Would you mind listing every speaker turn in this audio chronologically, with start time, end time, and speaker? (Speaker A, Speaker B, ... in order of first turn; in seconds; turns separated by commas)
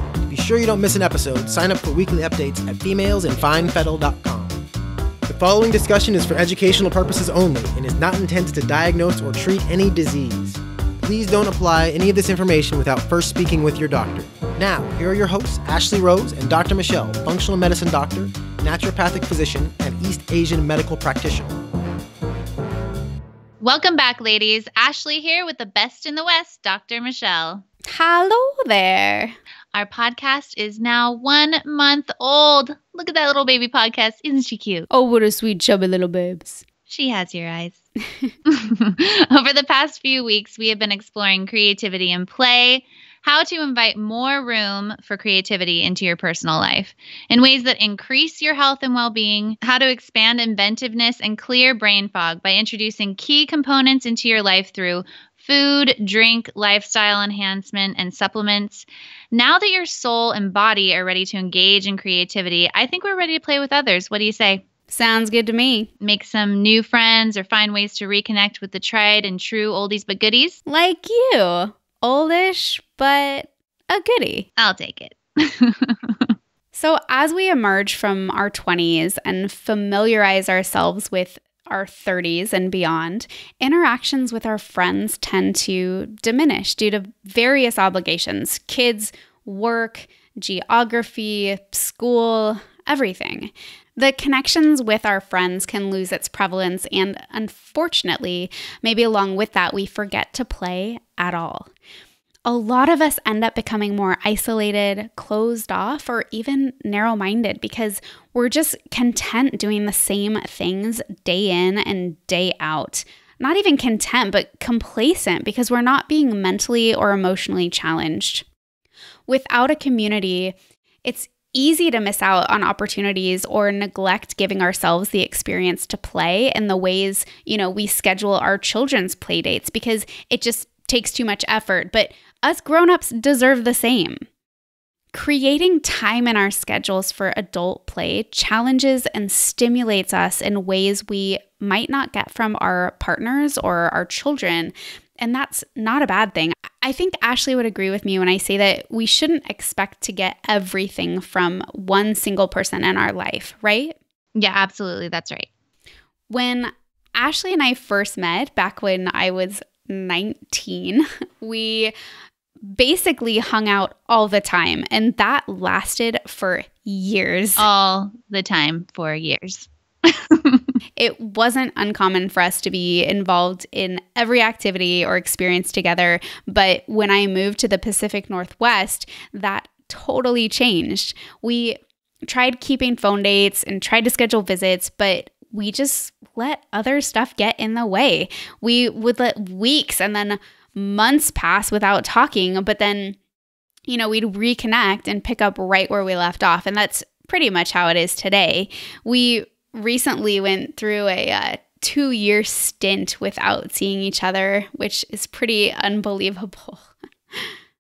Speaker A: 0.3-4.6, Speaker A: 5.3-21.6, Speaker B: 23.6-27.6, Speaker C: 27.9-29.4, Speaker B: 29.7-34.9, Speaker C: 34.9-36.6, Speaker B: 36.9-37.8, Speaker C: 38.0-38.3, Speaker B: 38.5-64.6, Speaker C: 64.9-65.9, Speaker B: 66.0-70.6, Speaker C: 70.7-74.5, Speaker B: 74.6-76.3, Speaker C: 76.7-101.7, Speaker C: 102.5-118.5, Speaker C: 119.3-134.2, Speaker C: 135.1-153.9, Speaker B: 154.3-155.5, Speaker C: 156.3-161.9, Speaker C: 162.7-167.7, Speaker B: 167.6-170.7, Speaker C: 171.0-193.2, Speaker C: 193.9-207.5